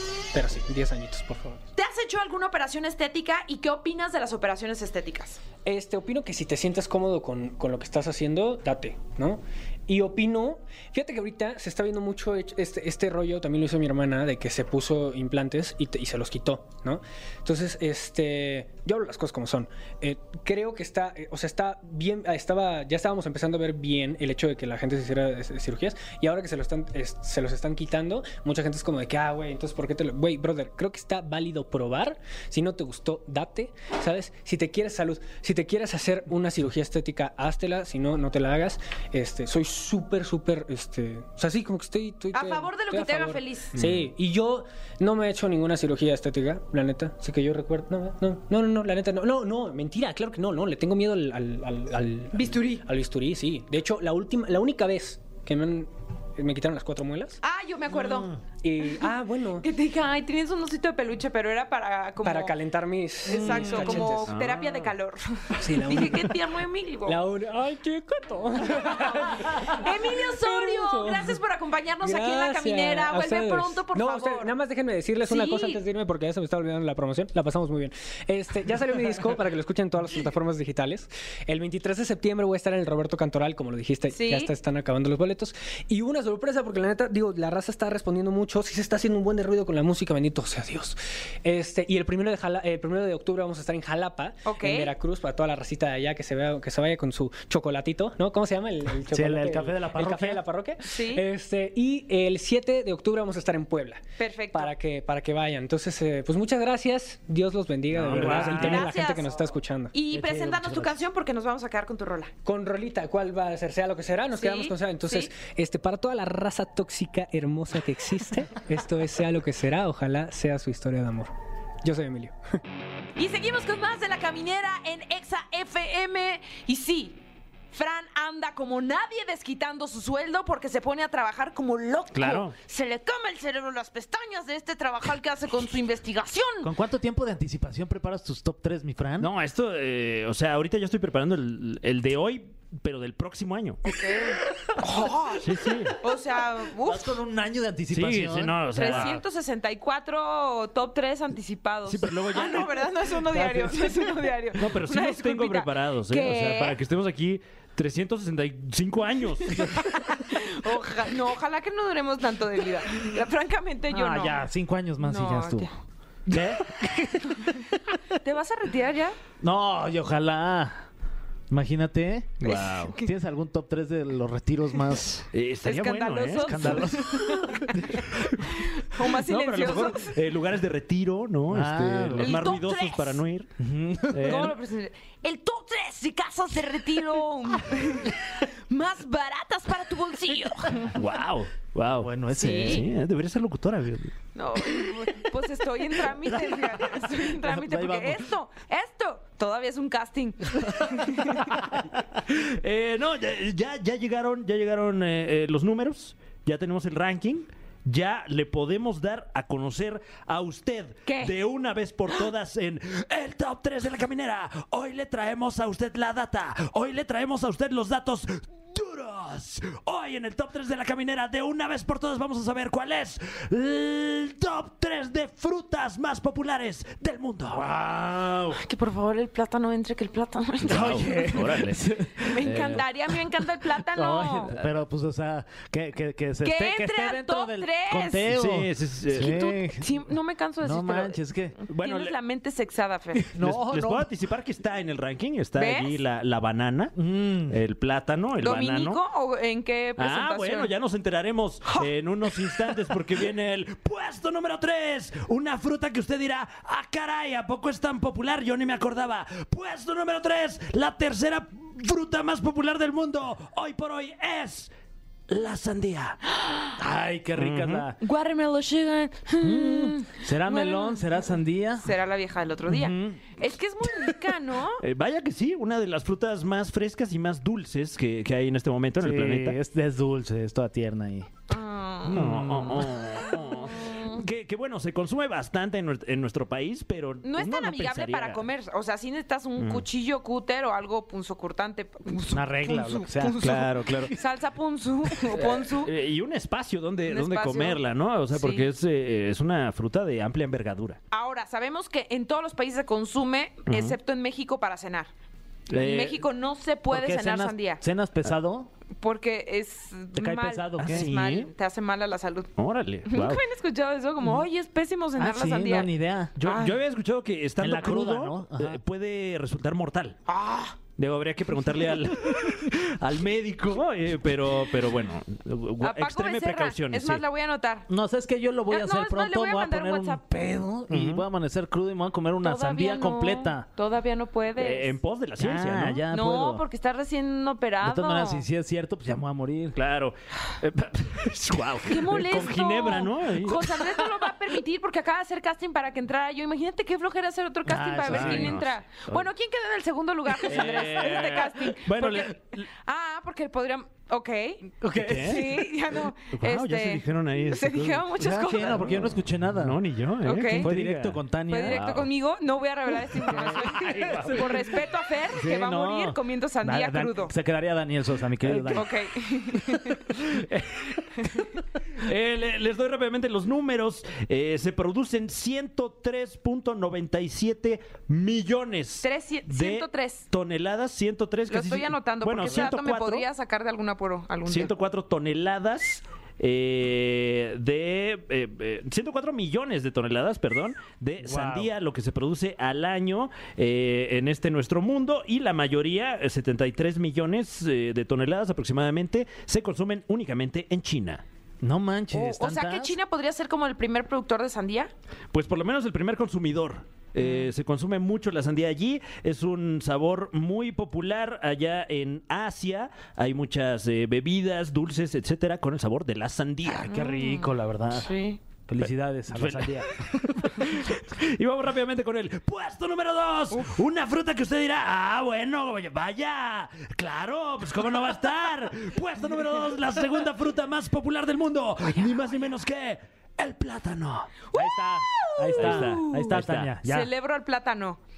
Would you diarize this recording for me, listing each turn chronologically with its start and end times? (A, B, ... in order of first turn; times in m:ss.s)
0:00.3-0:01.6 A
0:01.8-0:05.4 B
0:05.6-0:57.4 A
0:42.3-0:43.8 B
0:43.8-0:44.1 C
0:52.3-0:52.8 B
0:57.4-0:58.4 B
0:58.6-0:59.6 A
0:59.6-1:02.5 B
1:02.2-1:04.3 A
1:03.2-1:07.2 B
1:04.2-1:04.9 C
1:05.5-1:06.5 A
1:07.0-1:11.4 A
1:08.8-1:14.5 B
1:12.0-1:50.0 A
1:15.2-1:15.8 B
1:24.1-1:24.5 B
1:34.4-1:34.9 B
1:39.1-1:40.4 D
1:40.8-1:41.2 B
1:44.2-1:44.7 B
1:47.9-1:48.8 C
1:47.9-1:48.9 D
1:48.2-1:49.4 B
1:49.9-1:52.3 B
1:50.1-1:50.9 D
1:52.4-2:02.6 A
1:54.3-1:55.3 B
2:03.2-2:07.2 B
2:07.7-2:16.7 B
2:12.1-2:12.5 C
2:16.6-2:19.3 D
2:19.2-2:23.8 C
2:23.8-2:27.1 B
2:25.4-2:26.0 C
2:26.8-2:29.2 D
2:27.9-2:29.2 C
2:28.7-2:36.8 B
2:31.9-2:39.8 C
2:39.5-2:44.4 B
2:43.9-2:45.7 D
2:45.0-2:45.7 B
2:46.3-2:47.3 D
2:47.2-2:49.2 B
2:49.4-2:50.8 D
2:51.5-2:55.2 D
2:52.4-2:52.9 C
2:52.4-2:53.1 B
2:55.2-2:57.0 C
2:55.6-3:00.2 B
2:56.4-2:57.7 D
2:57.7-3:03.5 C
3:01.5-3:02.4 D
3:02.2-3:03.2 B
3:03.6-3:04.5 D
3:04.1-3:04.6 C
3:04.2-3:10.9 B
3:10.8-3:14.1 C
3:12.0-3:12.8 D
3:12.3-3:12.9 B
3:14.3-3:21.5 B
3:16.3-3:18.3 D
3:22.2-3:47.6 C
3:31.0-3:31.3 B
3:47.5-3:48.6 D
3:48.5-3:51.5 B
3:50.6-3:52.8 C
3:50.6-3:52.4 D
3:52.2-3:54.5 B
3:53.8-3:59.9 D
3:56.4-3:58.3 B
3:58.3-3:59.4 C
3:59.1-4:03.2 B
4:00.6-4:01.5 D
4:01.7-4:02.2 C
4:03.2-4:04.1 D
4:03.3-4:09.0 C
4:05.6-4:06.0 B
4:07.0-4:07.6 D
4:08.4-4:10.7 B
4:10.0-4:24.7 C
4:25.3-4:26.2 C
4:26.8-4:28.0 D
4:27.4-4:27.9 C
4:28.0-4:34.8 B
4:29.4-4:31.9 D
4:32.6-4:33.2 D
4:34.8-4:39.6 C
4:39.0-4:41.3 D
4:41.5-4:42.4 B
4:42.0-4:43.0 D
4:42.1-4:48.5 C
4:43.4-4:44.2 B
4:47.2-4:55.9 B
4:49.6-4:49.8 C
4:52.3-4:53.4 D
4:53.4-4:54.1 C
4:55.3-5:01.0 C
4:57.0-4:57.8 B
4:58.3-4:58.6 B
5:01.1-5:05.1 B
5:03.7-5:04.0 C
5:05.7-5:06.2 C
5:05.7-5:07.8 B
5:06.9-5:08.7 D
5:09.0-5:12.5 B
5:10.1-5:11.1 D
5:10.8-5:11.5 C
5:12.6-5:13.4 C
5:13.1-5:15.9 B
5:15.2-5:16.4 D
5:16.4-5:20.2 C
5:16.4-5:16.8 B
5:17.6-5:18.8 D
5:20.3-5:20.8 B
5:21.0-5:27.2 C
5:25.8-5:27.9 B
5:27.9-5:33.6 D
5:28.7-5:30.2 B
5:30.9-5:31.2 C
5:32.4-5:35.0 B
5:34.6-5:36.0 C
5:35.4-5:36.6 D
5:36.1-5:38.4 B
5:37.8-5:39.8 D
5:39.8-5:44.1 C
5:41.9-5:58.9 B
5:47.6-5:48.6 D
5:48.1-5:49.2 C
5:50.4-5:52.6 C
5:54.8-5:55.6 D
5:55.0-5:55.7 C
5:56.3-6:02.1 C
5:58.2-5:59.8 D
6:00.2-6:00.7 B
6:00.4-6:01.9 D
6:01.5-6:07.3 B
6:03.3-6:04.6 C
6:03.3-6:04.5 D
6:05.3-6:08.9 D
6:08.4-6:08.9 C
6:08.7-6:10.1 B
6:10.2-6:11.0 C
6:11.2-6:11.5 B
6:12.0-6:23.2 C
6:19.0-6:20.2 B
6:21.5-6:24.7 B
6:22.4-6:22.7 D
6:24.4-6:41.2 C
6:31.2-6:31.7 D
6:41.6-6:43.0 D
6:42.1-6:44.9 B
6:45.3-6:56.9 C
6:47.2-6:47.5 B
6:56.6-6:58.1 D
6:56.9-6:58.4 B
6:58.7-7:00.1 D
6:58.8-7:14.3 C
7:14.5-7:18.0 B
7:14.5-7:17.1 D
7:15.6-7:16.7 C